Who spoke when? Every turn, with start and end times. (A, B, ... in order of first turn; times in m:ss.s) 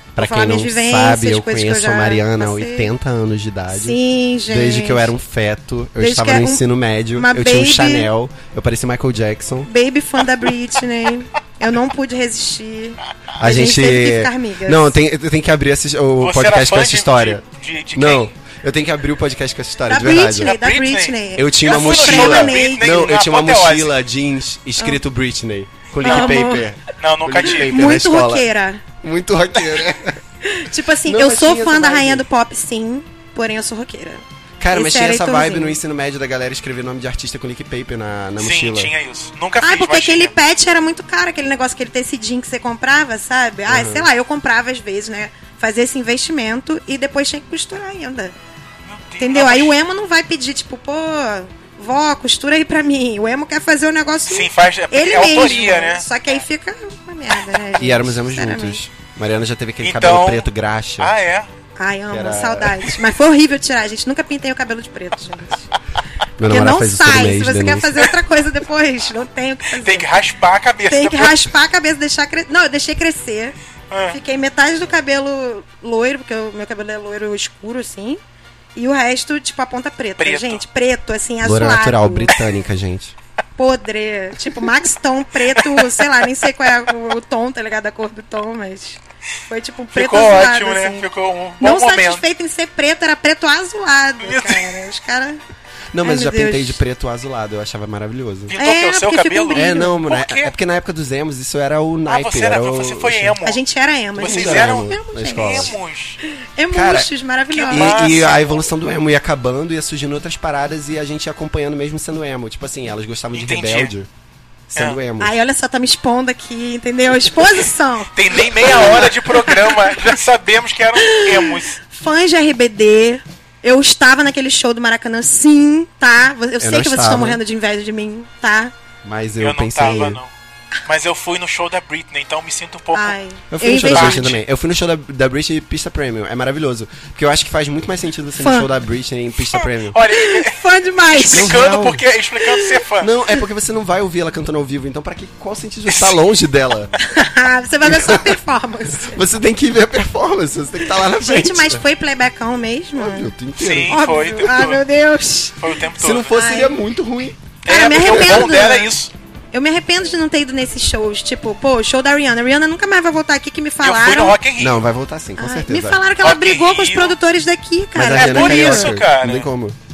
0:00.1-0:09.7 A
0:00.2-0:02.9 B
0:03.7-0:05.1 B
0:06.0-0:08.1 B
0:09.6-0:15.0 B
0:13.3-0:20.5 A
0:16.2-0:18.3 C
0:19.9-0:23.0 B
0:20.1-0:23.9 C
0:21.4-0:28.5 A
0:26.0-0:26.7 B
0:26.0-0:26.4 C
0:27.0-0:28.0 C
0:27.4-0:28.8 B
0:29.0-0:30.2 A
0:30.4-0:35.8 B
0:31.0-0:32.2 A
0:34.6-0:38.9 A
0:38.4-0:40.3 C
0:39.6-0:48.3 B
0:43.7-0:44.1 A
0:48.8-0:49.7 C
0:49.2-0:58.8 B
0:54.3-0:56.1 C
0:57.8-1:01.1 A
0:59.8-1:00.5 C
1:01.0-1:01.5 C
1:01.8-1:05.7 B
1:02.1-1:03.0 A
1:06.4-1:08.1 A
1:06.4-1:10.1 B
1:09.8-1:11.5 C
1:10.9-1:13.5 B
1:13.9-1:14.2 C
1:14.1-1:18.2 B
1:18.8-1:22.3 B
1:20.2-1:20.6 C
1:21.4-1:23.1 A
1:23.6-1:31.0 B
1:25.6-1:26.0 C
1:29.9-1:32.2 C
1:31.6-1:35.4 B
1:34.2-1:34.8 C
1:35.9-1:38.5 A
1:36.0-1:36.8 B
1:38.5-1:40.5 C
1:38.6-1:40.0 B
1:39.5-1:43.3 A
1:42.1-1:43.6 C
1:43.4-1:45.8 B
1:44.1-1:45.8 A
1:44.2-1:46.2 C
1:46.3-1:48.2 B
1:46.7-1:47.1 A
1:47.5-1:48.6 C
1:47.7-1:54.1 A
1:53.3-1:53.9 C
1:54.7-1:55.3 A
1:55.2-2:00.0 B
1:58.1-2:01.8 C
2:01.0-2:08.7 B
2:06.6-2:07.4 A
2:09.0-2:10.2 A
2:09.4-2:10.3 C
2:10.8-2:13.1 C
2:12.9-2:14.3 B
2:13.5-2:20.0 A
2:13.8-2:14.4 C
2:18.4-2:18.7 B
2:19.5-2:23.1 C
2:20.0-2:21.6 B
2:21.3-2:22.0 A
2:22.4-2:22.7 B
2:23.0-2:26.9 A
2:25.9-2:26.2 C
2:27.0-2:29.2 B
2:27.8-2:28.4 A
2:29.0-2:31.8 A
2:30.9-2:33.3 B
2:33.0-2:34.0 A
2:33.6-2:34.8 C
2:33.9-2:35.6 B
2:35.6-2:36.4 C
2:36.0-2:38.1 A
2:36.3-2:36.7 B
2:37.6-2:38.9 B
2:37.6-2:39.1 C
2:39.5-2:44.4 B
2:43.8-2:44.8 C
2:44.6-2:46.0 A
2:45.4-2:49.0 B
2:46.2-2:47.2 C
2:47.9-2:49.8 A
2:48.2-2:49.5 C